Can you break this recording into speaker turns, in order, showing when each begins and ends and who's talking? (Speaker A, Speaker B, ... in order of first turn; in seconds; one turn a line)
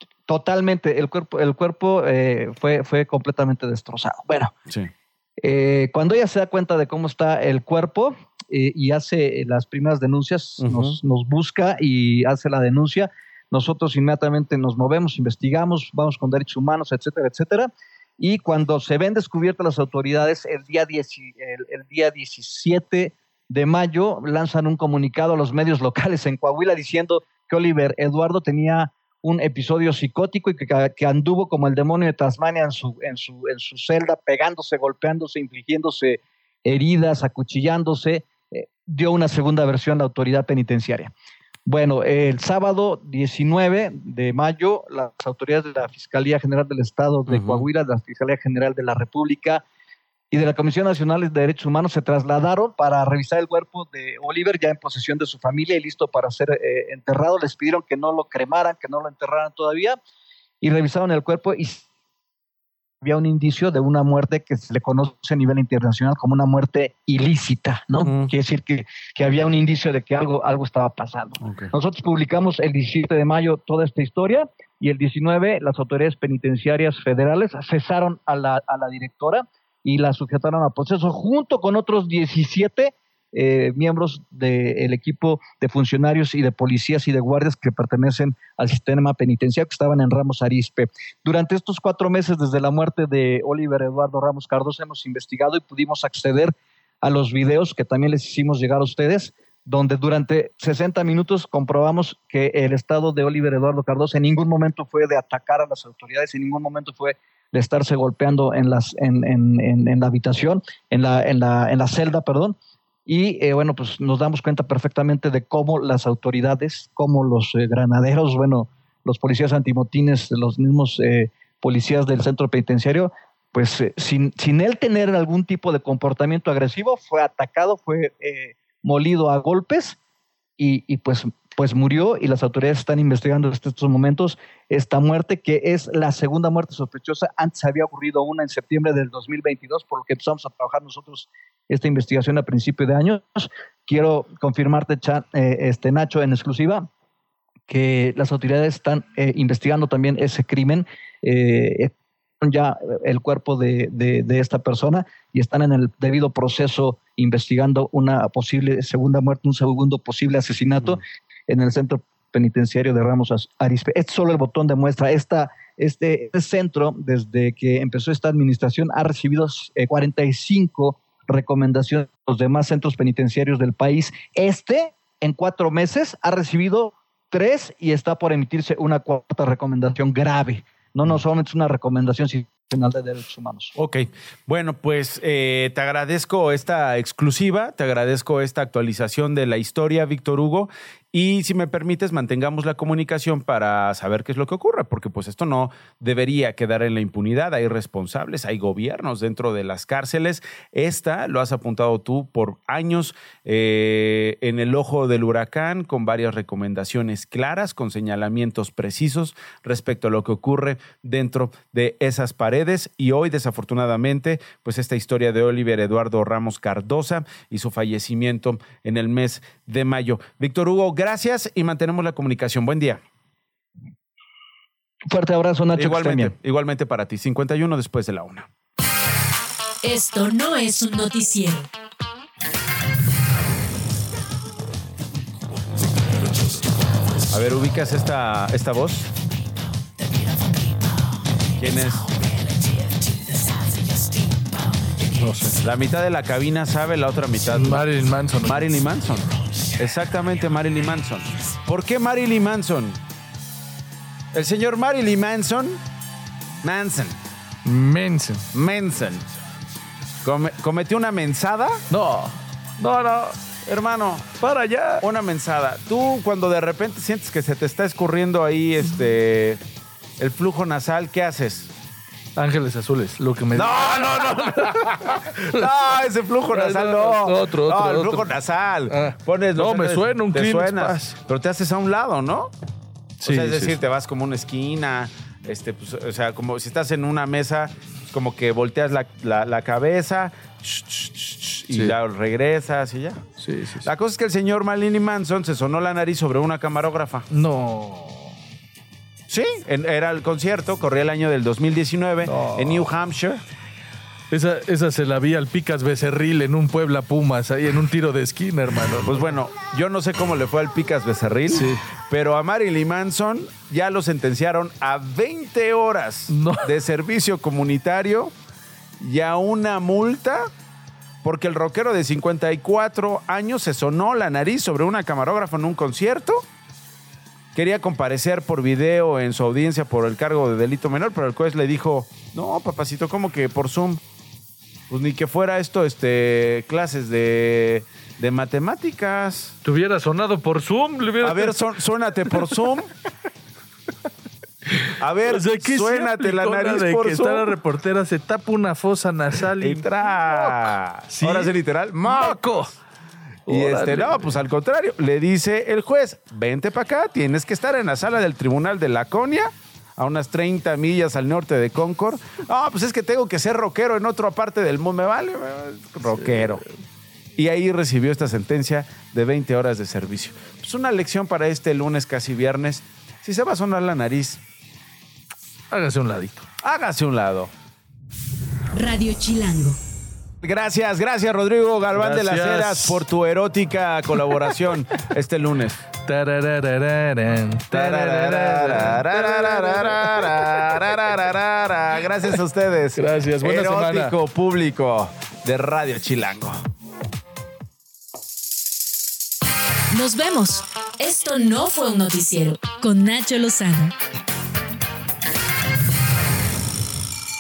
Speaker A: 0.3-4.5
Speaker A: 5.4-41.1
Speaker B: 10.6-11.0
Speaker A: 41.7-49.6
Speaker B: 47.3-47.7
Speaker A: 50.3-60.0
Speaker A: 60.6-61.8
Speaker A: 63.0-130.0
Speaker B: 68.0-68.3
Speaker B: 71.4-71.7
Speaker A: 130.6-146.9
Speaker A: 147.7-183.7
Speaker B: 183.8-223.0
Speaker A: 225.1-226.3
Speaker B: 225.8-228.5
Speaker C: 229.8-231.7
Speaker B: 237.3-239.1
Speaker B: 241.6-242.1
Speaker D: 245.2-245.6
Speaker B: 245.6-247.9
Speaker D: 247.5-248.8
Speaker B: 248.4-253.0
Speaker B: 254.3-255.8
Speaker B: 256.6-257.2
Speaker D: 257.6-258.5
Speaker B: 258.5-259.2
Speaker B: 260.2-261.8
Speaker D: 261.9-263.4
Speaker B: 263.6-264.4
Speaker D: 264.4-265.1
Speaker B: 265.0-269.6
Speaker B: 270.2-271.7
Speaker D: 272.4-275.7
Speaker B: 273.5-282.5
Speaker D: 276.5-278.3
Speaker D: 278.9-281.2
Speaker D: 283.2-283.8
Speaker B: 283.2-293.2
Speaker D: 293.4-293.9
Speaker B: 293.8-297.3
Speaker D: 297.3-298.4
Speaker B: 299.3-303.4
Speaker D: 302.2-302.9
Speaker D: 304.3-309.3
Speaker B: 309.1-318.3
Speaker D: 311.5-311.8
Speaker D: 316.3-316.7
Speaker B: 319.0-320.5
Speaker B: 321.2-326.4
Speaker B: 327.5-334.0
Speaker B: 334.9-339.6
Speaker D: 339.6-341.6
Speaker B: 341.2-342.9
Speaker B: 345.0-347.5
Speaker D: 345.3-352.8
Speaker B: 349.6-352.4
Speaker D: 353.5-354.4
Speaker B: 353.5-366.6
Speaker D: 366.1-366.6
Speaker B: 367.4-374.4
Speaker D: 375.7-376.5
Speaker B: 376.6-377.5
Speaker C: 378.7-379.8
Speaker B: 380.4-385.8
Speaker D: 381.9-383.0
Speaker D: 386.1-390.9
Speaker B: 387.7-396.6
Speaker D: 393.0-394.1
Speaker C: 399.9-404.0